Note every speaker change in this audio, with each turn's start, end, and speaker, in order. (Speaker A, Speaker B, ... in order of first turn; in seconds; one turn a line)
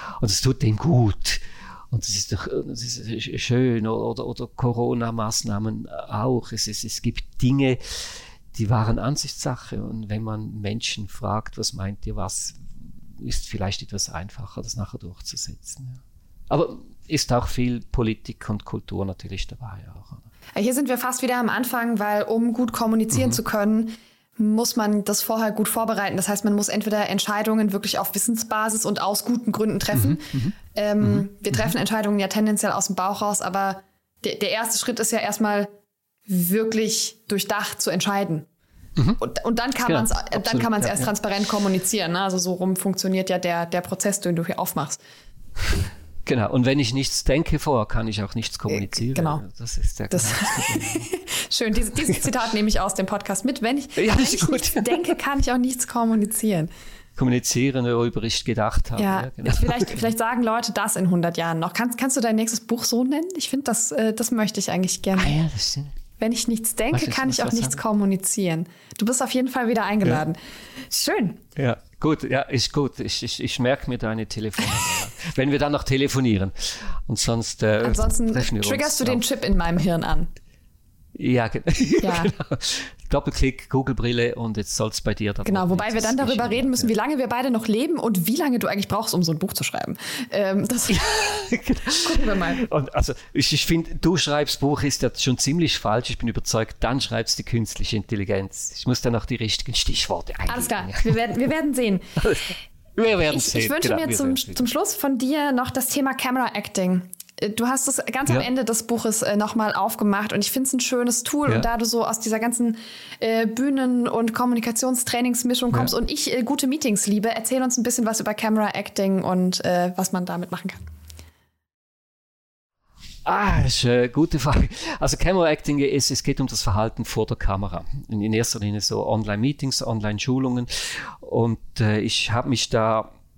Speaker A: 0.2-12.6
Speaker A: 13.2-20.3
Speaker B: 20.6-35.7
Speaker A: 23.1-23.4
Speaker A: 29.9-31.7
Speaker B: 36.3-38.5
Speaker B: 39.2-45.0
Speaker A: 39.8-41.1
Speaker A: 46.3-51.1
Speaker B: 48.7-49.4
Speaker B: 50.1-56.7
Speaker A: 54.0-55.1
Speaker A: 57.2-60.1
Speaker B: 59.0-65.3
Speaker A: 65.2-66.0
Speaker B: 66.2-70.4
Speaker A: 66.9-67.8
Speaker B: 70.9-71.4
Speaker A: 71.6-79.2
Speaker B: 77.8-80.3
Speaker A: 81.2-86.9
Speaker B: 82.0-82.3
Speaker B: 85.5-91.0
Speaker A: 90.9-101.3
Speaker B: 92.0-92.7
Speaker B: 100.5-102.0
Speaker A: 102.2-104.7
Speaker B: 103.3-120.8
Speaker A: 123.2-133.1